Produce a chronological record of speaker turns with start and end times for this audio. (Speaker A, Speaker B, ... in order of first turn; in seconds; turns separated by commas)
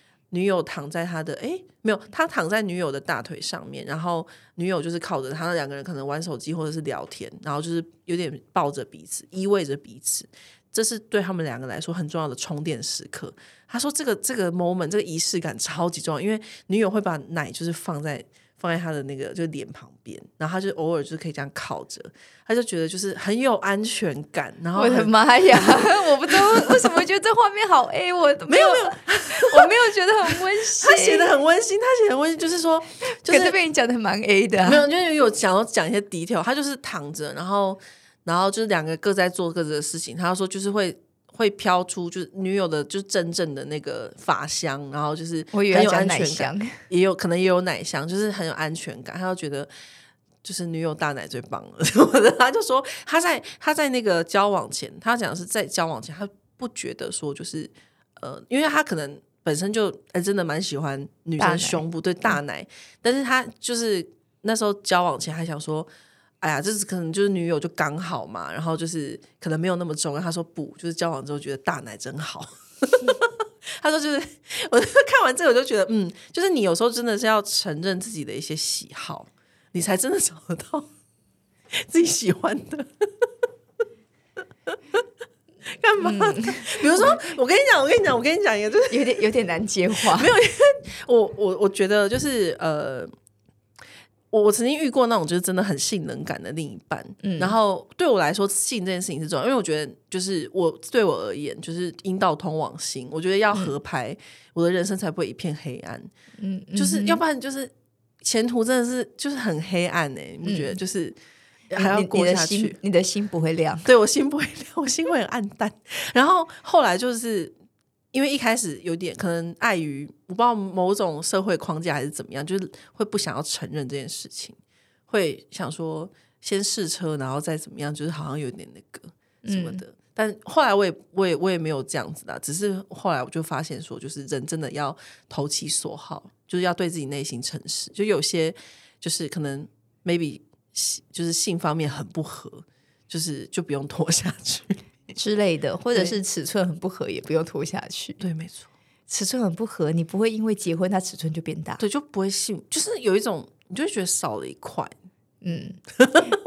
Speaker A: 0.3-25.8, Speaker B: 24.7-31.3, Speaker A: 28.5-29.7, Speaker A: 30.3-33.6, Speaker B: 33.1-34.9, Speaker A: 34.6-49.7, Speaker B: 45.5-46.8, Speaker A: 50.4-65.9, Speaker B: 61.4-61.8, Speaker A: 66.4-73.2, Speaker A: 73.8-80.9, Speaker A: 81.7-83.0, Speaker A: 85.8-89.2, Speaker B: 86.0-87.1, Speaker B: 88.9-90.3, Speaker A: 89.9-93.1, Speaker A: 94.3-106.1, Speaker B: 97.2-97.6, Speaker B: 106.4-107.2, Speaker A: 106.7-107.7, Speaker A: 108.2-111.2, Speaker B: 110.4-110.8, Speaker A: 111.7-112.8, Speaker B: 111.7-113.9, Speaker A: 113.8-117.5, Speaker A: 118.1-124.6, Speaker A: 125.1-144.8, Speaker B: 129.4-129.8, Speaker B: 145.1-148.2, Speaker A: 148.2-148.7, Speaker B: 149.1-151.8, Speaker A: 151.8-154.9, Speaker B: 155.4-155.8